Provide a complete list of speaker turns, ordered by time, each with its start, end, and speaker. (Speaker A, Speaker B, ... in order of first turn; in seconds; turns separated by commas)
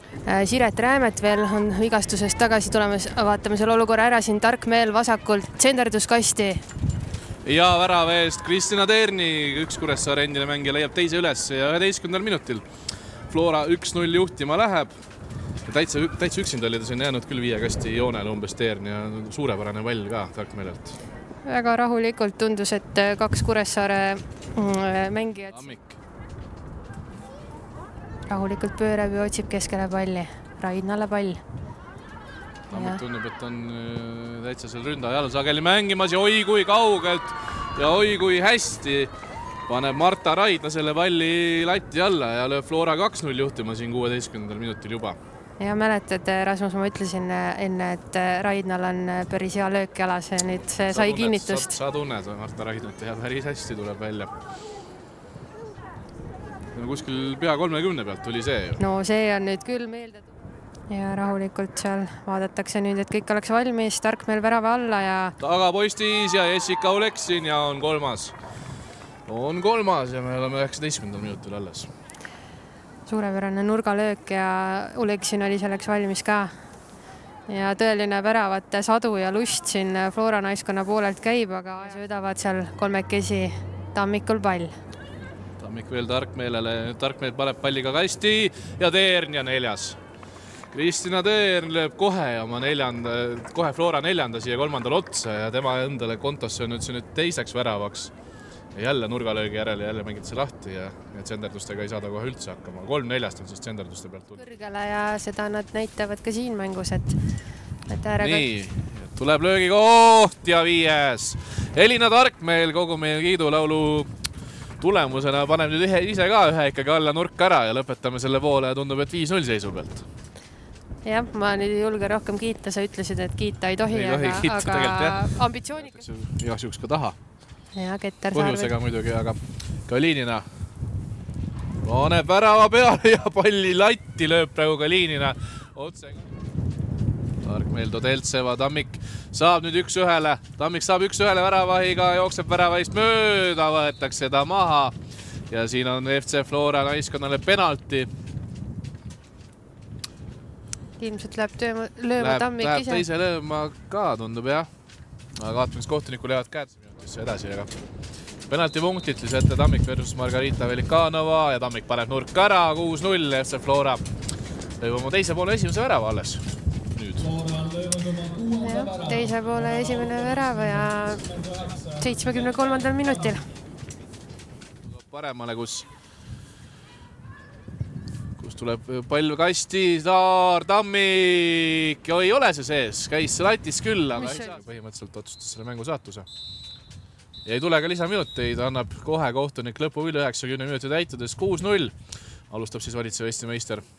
Speaker A: 0.2-6.6, Speaker B: 7.4-12.7, Speaker B: 13.3-14.9, Speaker B: 15.6-21.0, Speaker A: 21.4-25.7, Speaker B: 25.5-26.0, Speaker A: 28.3-31.4, Speaker B: 32.7-39.1, Speaker A: 32.7-33.0, Speaker B: 39.7-45.2, Speaker A: 45.6-51.8, Speaker B: 50.8-54.3, Speaker B: 56.7-58.8, Speaker A: 58.8-60.3, Speaker A: 60.9-65.3, Speaker B: 65.4-68.3, Speaker B: 69.3-71.9, Speaker A: 73.0-76.5, Speaker A: 77.5-84.7, Speaker B: 85.6-90.0, Speaker B: 90.7-98.1, Speaker B: 98.7-104.4, Speaker A: 104.3-107.2, Speaker A: 107.8-108.5, Speaker B: 108.2-114.1, Speaker B: 114.8-120.0, Speaker A: 121.0-126.0, Speaker B: 123.9-127.2, Speaker A: 127.7-128.7, Speaker B: 128.3-130.4, Speaker B: 131.8-136.2, Speaker B: 137.4-144.9, Speaker B: 145.5-148.1, Speaker A: 151.0-153.0, Speaker B: 152.2-154.7, Speaker B: 155.4-157.7, Speaker B: 158.5-164.0, Speaker B: 164.8-167.8, Speaker A: 168.1-173.5, Speaker B: 174.8-175.9, Speaker B: 178.4-186.3, Speaker A: 184.1-184.6, Speaker B: 187.4-191.9, Speaker B: 192.5-193.8